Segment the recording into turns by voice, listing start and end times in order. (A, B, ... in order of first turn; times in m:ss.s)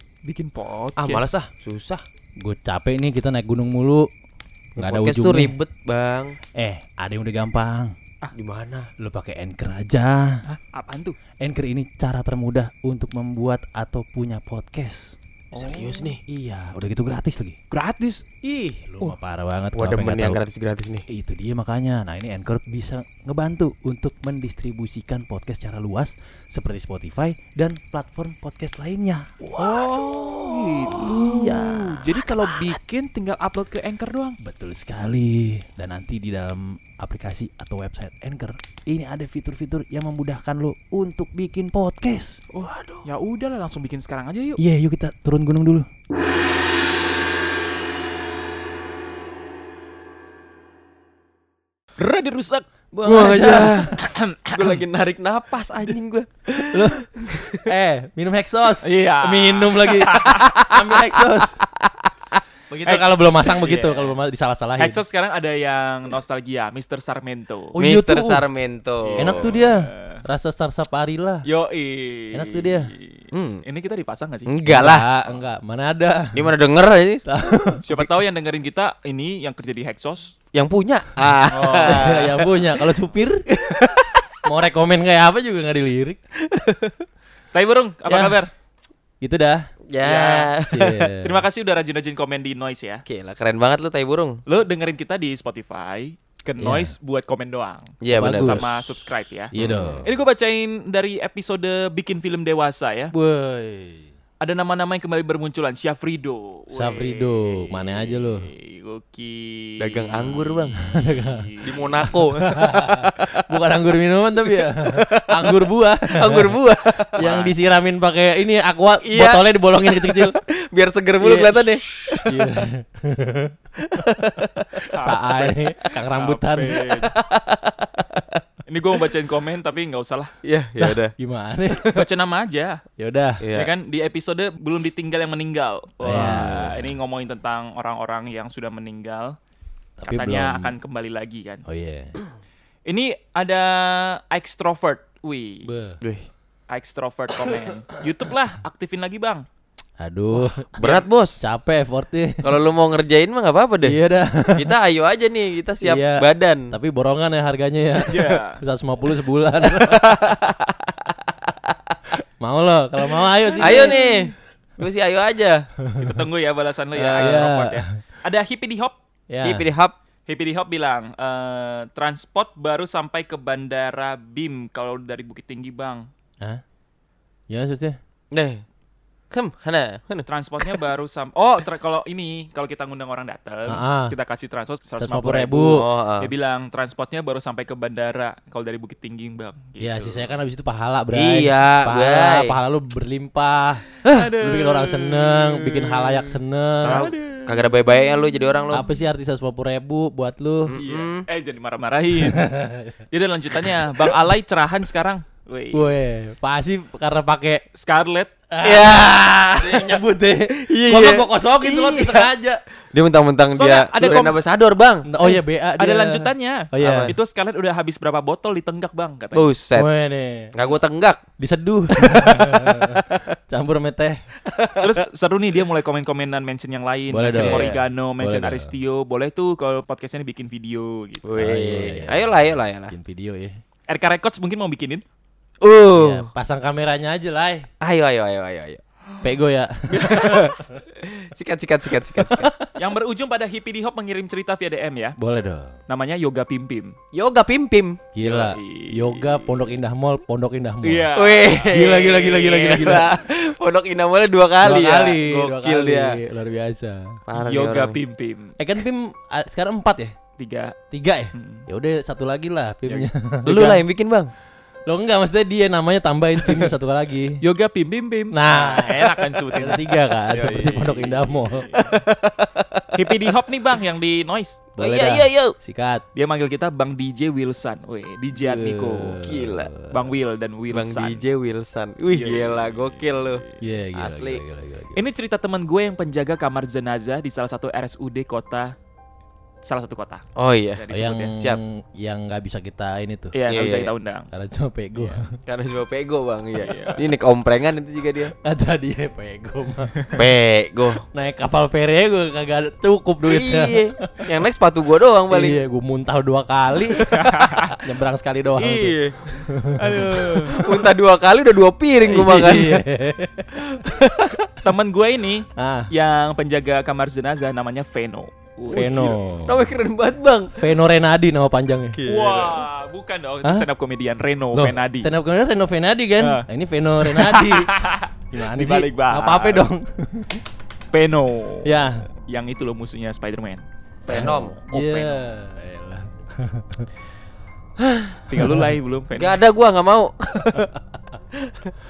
0:00.2-0:01.4 A
0:01.0-0:02.0 B
0:02.4-0:04.1 C
0:04.8-0:06.4 B
0:04.8-0:05.6 C
0:06.6-0:07.9 C
0:08.3-0:08.9 B
0:09.0-0:10.4 C
0:10.4-0:11.2 A
0:11.4-0:15.2 C
0:15.5-0:16.1 A
0:15.5-0:16.2 B
0:16.3-0:17.6 C
0:17.7-0:19.2 A
0:18.8-0:20.4 C
0:19.7-0:21.1 B
0:21.1-0:29.3 C
0:29.5-0:31.1 B
0:29.6-0:34.4 A
0:30.8-0:32.2 C
0:34.4-0:42.4 C
0:42.5-0:44.6 A
0:44.6-0:45.9 C
0:52.0-0:52.6 A
0:52.9-0:57.6 B
0:53.0-0:54.0 C
0:53.9-0:54.8 A
0:56.7-0:57.0 C
0:57.6-1:01.6 C
0:58.8-1:00.5 A
1:00.3-1:01.2 B
1:02.7-1:04.2 A
1:02.8-1:05.0 C
1:04.8-1:07.7 A
1:07.7-1:08.4 C
1:07.8-1:09.6 B
1:09.0-1:10.2 A
1:09.2-1:11.4 C
1:11.4-1:14.5 A
1:12.3-1:12.9 C
1:13.3-1:13.6 B
1:14.4-1:15.1 B
1:14.6-1:16.5 C
1:16.3-1:17.2 B
1:17.3-1:17.8 C
1:17.8-1:20.3 A
1:20.5-1:22.8 B
1:21.5-1:22.3 A
1:21.8-1:23.5 C
1:23.5-1:24.2 B
1:24.4-1:26.2 C
1:26.4-1:27.0 B
1:27.5-1:28.5 A
1:28.1-1:28.4 C
1:29.2-1:29.7 C
1:29.9-1:31.1 B
1:30.0-1:30.5 A
1:30.7-1:31.4 C
1:31.2-1:33.0 A
1:33.1-1:34.4 B
1:34.4-1:43.1 A
1:36.6-1:36.9 C
1:38.0-1:38.7 B
1:38.1-1:38.7 C
1:39.5-1:40.1 C
1:39.5-1:40.0 B
1:43.1-1:44.1 C
1:44.4-1:52.0 A
1:46.7-1:48.5 C
1:49.8-1:50.8 B
1:50.8-1:51.5 C
1:51.6-1:53.4 B
1:52.0-1:56.6 C
1:54.4-1:57.2 B
1:57.2-2:00.3 C
1:57.2-1:57.5 A
1:59.0-2:02.4 B
2:01.2-2:03.5 C
2:03.9-2:04.8 B
2:04.8-2:07.1 A
2:05.0-2:06.8 C
2:06.9-2:08.4 B
2:08.7-2:10.3 A
2:10.4-2:11.1 B
2:10.8-2:12.0 C
2:11.8-2:12.8 A
2:13.0-2:13.4 C
2:13.4-2:13.7 B
2:13.5-2:19.4 A
2:16.0-2:16.8 B
2:16.0-2:16.8 C
2:20.0-2:20.8 C
2:20.0-2:21.6 A
2:21.7-2:22.1 C
2:22.8-2:25.7 A
2:25.6-2:26.0 C
2:26.0-2:26.3 B
2:26.7-2:29.4 A
2:30.0-2:32.5 C
2:30.8-2:31.4 B
2:32.4-2:34.0 B
2:33.8-2:34.7 C
2:34.6-2:36.7 B
2:35.8-2:40.0 C
2:38.1-2:38.6 A
2:39.6-2:41.7 B
2:42.4-2:44.1 C
2:43.6-2:45.7 B
2:43.6-2:44.0 A
2:45.8-2:46.2 C
2:46.0-2:48.9 A
2:46.9-2:47.9 C
2:47.2-2:47.4 B
2:49.3-2:49.6 C
2:49.4-2:50.0 B
2:50.3-2:56.1 A
2:57.5-2:58.0 C
2:58.3-2:58.6 B
2:59.3-3:00.8 B
3:00.2-3:10.4 A
3:03.7-3:04.1 C
3:05.0-3:05.8 C
3:05.7-3:06.3 B
3:09.8-3:17.1 C
3:11.1-3:12.6 B
3:14.0-3:16.3 A
3:14.0-3:14.3 B
3:16.8-3:18.8 B
3:16.8-3:17.9 A
3:18.4-3:18.8 A
3:18.7-3:20.7 C
3:20.7-3:21.2 B
3:20.7-3:22.5 A
3:22.2-3:23.0 C
3:23.1-3:25.9 A
3:25.7-3:27.6 C
3:27.7-3:28.3 A
3:28.5-3:32.6 C
3:28.6-3:32.3 B
3:32.9-3:35.1 B
3:33.5-3:34.4 A
3:35.0-3:37.1 C
3:35.2-3:39.5 A
3:36.8-3:37.2 B
3:39.3-3:39.9 B
3:39.7-3:40.6 C
3:40.5-3:41.2 B
3:41.4-3:44.2 C
3:42.0-3:43.2 B
3:44.5-3:45.0 B
3:44.8-3:51.3 A
3:47.1-3:48.7 C
3:47.4-3:47.8 B
3:51.2-3:52.9 B
3:51.4-3:53.6 C
3:53.9-3:55.0 A
3:55.6-3:56.3 B
3:55.9-3:57.7 C
3:57.8-3:58.8 B
3:59.2-4:00.5 C
3:59.9-4:02.5 B
4:02.2-4:02.6 C
4:02.8-4:05.2 A
4:05.2-4:05.8 C
4:05.9-4:06.9 A
4:07.1-4:08.1 B
4:08.1-4:11.1 C
4:08.2-4:09.7 A
4:10.8-4:11.8 A
4:11.1-4:16.2 B
4:11.6-4:13.1 C
4:14.6-4:17.2 C
4:17.3-4:18.0 B
4:17.3-4:18.6 A
4:18.6-4:20.1 C
4:20.4-4:20.8 A
4:20.9-4:23.5 C
4:21.3-4:21.6 A
4:22.8-4:24.3 B
4:23.4-4:23.8 A
4:24.9-4:27.4 C
4:27.4-4:31.9 A
4:28.3-4:31.7 C
4:30.3-4:30.9 B
4:31.7-4:33.3 B
4:32.9-4:34.6 A
4:34.8-4:36.0 C
4:34.8-4:35.6 B
4:36.1-4:39.2 A
4:38.3-4:40.0 C
4:39.2-4:39.7 B
4:39.9-4:41.2 A
4:40.7-4:43.4 B
4:42.1-4:43.6 A
4:43.6-4:45.0 C
4:43.9-4:44.4 B
4:44.9-4:48.7 A
4:49.6-4:50.2 A
4:50.4-4:50.8 B
4:50.7-4:51.3 A
4:50.9-4:53.4 C
4:53.3-4:54.3 A
4:53.5-4:53.9 B
4:54.3-4:55.3 C
4:55.0-4:55.2 A
4:55.4-4:58.3 B
4:56.6-4:57.1 A
4:58.4-5:00.1 C
5:00.2-5:01.0 B
5:01.1-5:04.2 C
5:03.2-5:05.6 B
5:05.3-5:07.1 C
5:06.8-5:07.2 B
5:07.1-5:07.8 A
5:07.7-5:10.8 C
5:08.6-5:09.4 B
5:09.7-5:10.8 A
5:10.5-5:12.8 B
5:12.0-5:13.6 C
5:13.6-5:14.4 B
5:14.6-5:19.2 A
5:15.6-5:15.9 C
5:18.7-5:19.8 C
5:18.7-5:20.5 B
5:20.6-5:22.0 C
5:21.9-5:22.6 B
5:22.0-5:25.1 A
5:24.5-5:27.7 C
5:26.2-5:26.4 A
5:27.0-5:29.7 A
5:28.3-5:30.4 C
5:30.9-5:35.2 A
5:31.6-5:32.0 C
5:34.1-5:34.6 B
5:34.1-5:36.9 C
5:37.8-5:38.2 B
5:38.3-5:39.4 A
5:38.4-5:38.7 C
5:39.1-5:40.7 B
5:41.3-5:41.7 B